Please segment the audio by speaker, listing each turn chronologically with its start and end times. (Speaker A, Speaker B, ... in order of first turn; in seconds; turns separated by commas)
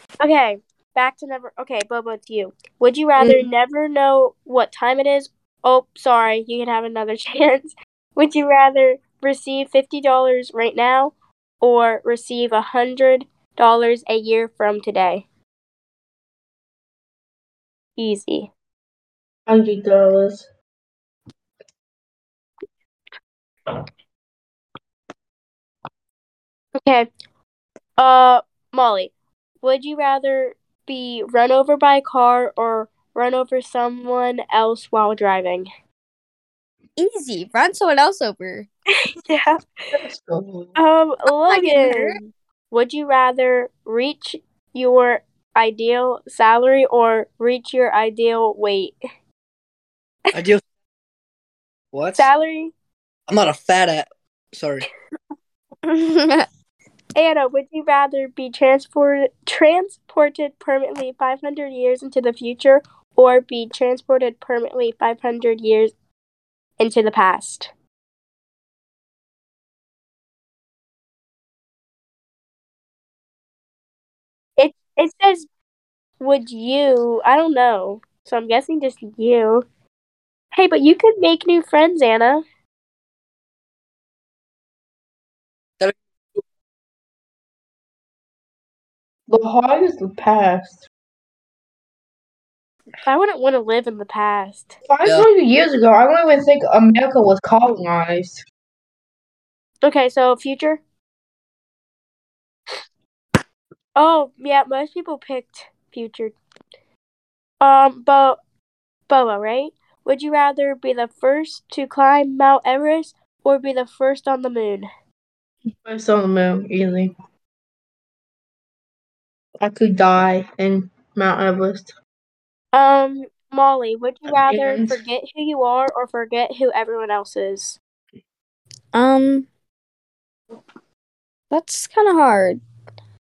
Speaker A: 0.2-15.2, Speaker B: 3.2-3.5, Speaker A: 18.0-18.5, Speaker B: 19.5-20.4, Speaker A: 26.8-27.1, Speaker A: 28.0-35.7, Speaker C: 37.0-38.7, Speaker A: 39.1-40.0, Speaker B: 39.9-40.8, Speaker A: 40.8-42.2, Speaker C: 41.5-42.2, Speaker A: 42.7-49.0, Speaker D: 50.3-50.6, Speaker D: 51.9-52.3, Speaker A: 52.2-52.7, Speaker D: 53.3-54.9, Speaker C: 55.9-56.5, Speaker A: 57.2-65.9, Speaker A: 66.8-67.7, Speaker A: 74.6-75.5, Speaker A: 76.2-79.7, Speaker A: 80.5-82.4, Speaker D: 85.8-86.4, Speaker B: 89.3-90.8, Speaker A: 93.0-94.7, Speaker B: 94.9-98.4, Speaker A: 99.8-100.8, Speaker A: 104.0-106.3, Speaker A: 107.6-108.4, Speaker A: 109.1-114.9, Speaker B: 115.8-117.1, Speaker B: 119.6-121.9, Speaker A: 122.7-127.8, Speaker B: 124.5-125.0, Speaker C: 128.9-129.5, Speaker C: 131.5-132.6